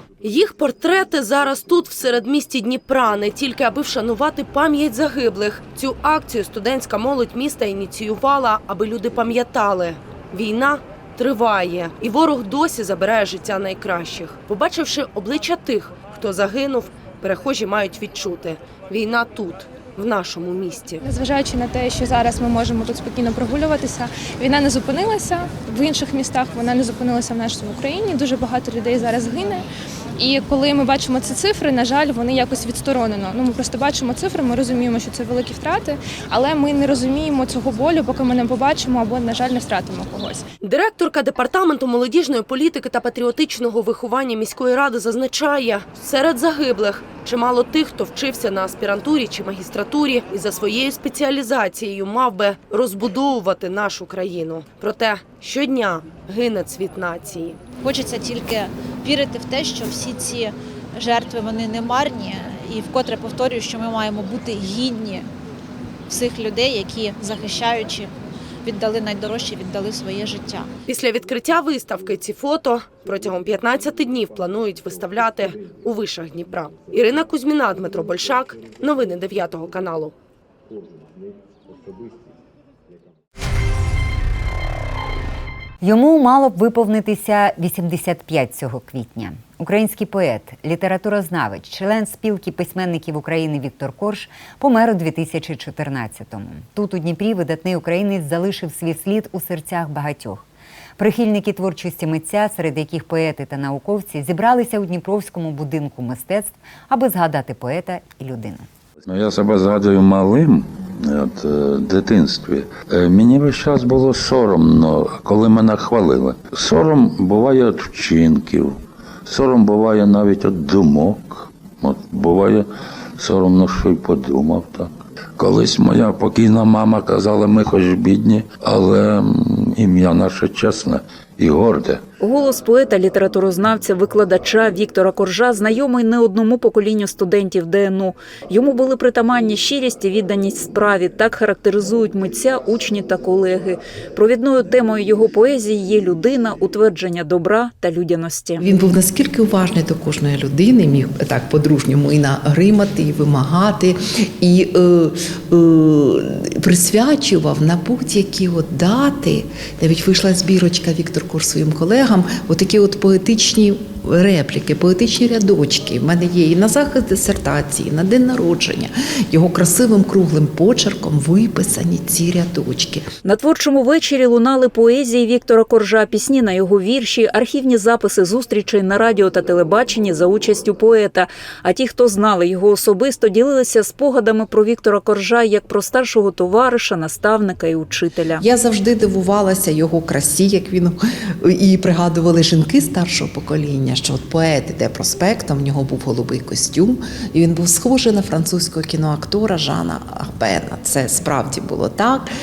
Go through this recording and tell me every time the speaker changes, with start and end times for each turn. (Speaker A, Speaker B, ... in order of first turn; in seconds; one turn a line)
Speaker A: 0.2-21.0
Speaker B: 21.1-29.7
Speaker B: 30.2-40.5
Speaker A: 40.6-57.6
Speaker C: 57.8-65.3
Speaker C: 66.1-68.1
Speaker C: 68.7-70.7
Speaker A: 70.9-80.1
Speaker D: 85.8-100.4
Speaker D: 101.0-108.7
Speaker E: 109.1-118.8
Speaker E: 119.3-122.7
Speaker E: 123.2-132.0
Speaker F: 132.2-148.7
Speaker G: 148.6-173.1
Speaker F: 173.2-188.4
Speaker G: 188.4-202.3